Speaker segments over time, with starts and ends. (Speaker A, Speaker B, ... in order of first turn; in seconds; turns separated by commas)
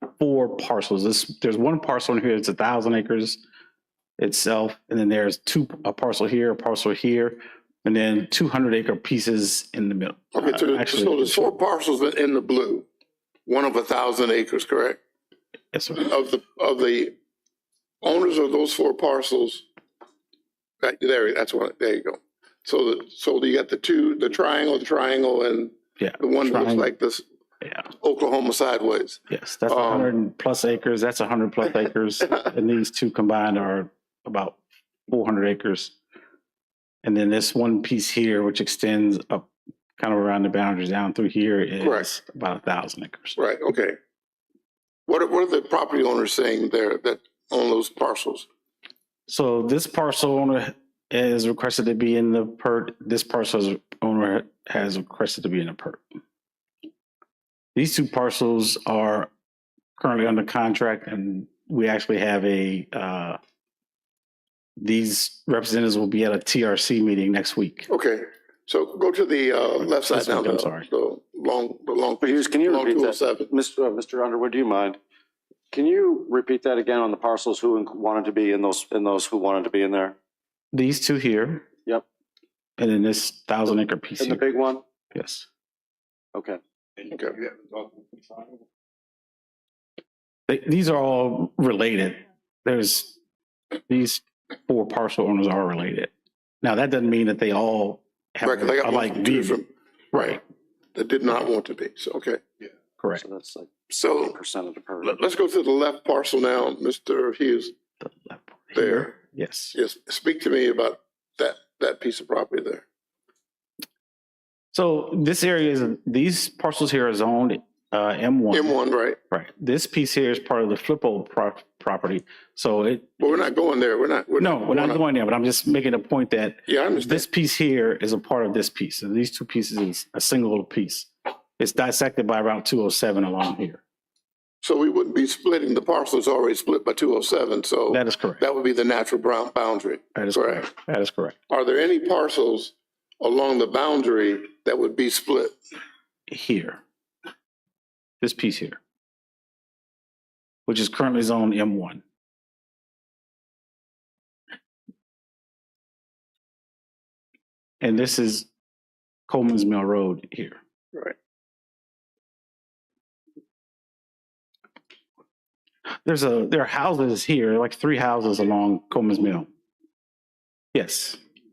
Speaker A: 0.2-3.4, Speaker A: 4.2-11.5, Speaker B: 10.3-12.8, Speaker B: 13.4-15.0, Speaker A: 15.7-16.1, Speaker B: 16.0-17.1, Speaker B: 18.0-19.6, Speaker B: 20.8-27.2, Speaker A: 26.0-26.9, Speaker B: 28.0-30.1, Speaker A: 29.3-35.9, Speaker A: 37.0-39.5, Speaker A: 40.0-43.4, Speaker B: 41.8-42.1, Speaker B: 43.4-44.0, Speaker B: 45.1-48.5, Speaker A: 49.3-56.0, Speaker A: 57.7-59.3, Speaker A: 60.0-63.4, Speaker A: 64.8-67.9, Speaker B: 67.9-73.5, Speaker A: 69.8-70.8, Speaker C: 72.2-75.0, Speaker C: 75.7-80.2, Speaker A: 80.7-81.6, Speaker A: 82.8-84.5, Speaker C: 84.2-84.8, Speaker A: 85.1-85.5, Speaker C: 86.3-86.6, Speaker B: 87.1-87.3, Speaker A: 90.5-93.1, Speaker A: 93.9-100.4, Speaker B: 98.4-100.4, Speaker B: 100.9-102.4, Speaker A: 103.0-103.2, Speaker C: 103.2-105.2, Speaker B: 103.9-104.3, Speaker B: 105.0-107.7, Speaker A: 108.0-109.8, Speaker B: 108.7-109.1, Speaker B: 109.7-112.8, Speaker A: 114.7-118.7, Speaker B: 118.5-119.2, Speaker A: 119.3-123.4, Speaker B: 123.2-125.0, Speaker A: 124.4-133.8, Speaker B: 126.7-127.2, Speaker B: 134.6-140.7, Speaker A: 137.9-138.4, Speaker A: 140.1-141.4, Speaker B: 141.5-145.6, Speaker A: 146.3-146.8, Speaker A: 148.2-148.8, Speaker A: 150.7-152.0, Speaker A: 157.8-158.5, Speaker A: 159.3-160.6, Speaker A: 166.0-169.5, Speaker A: 170.7-171.2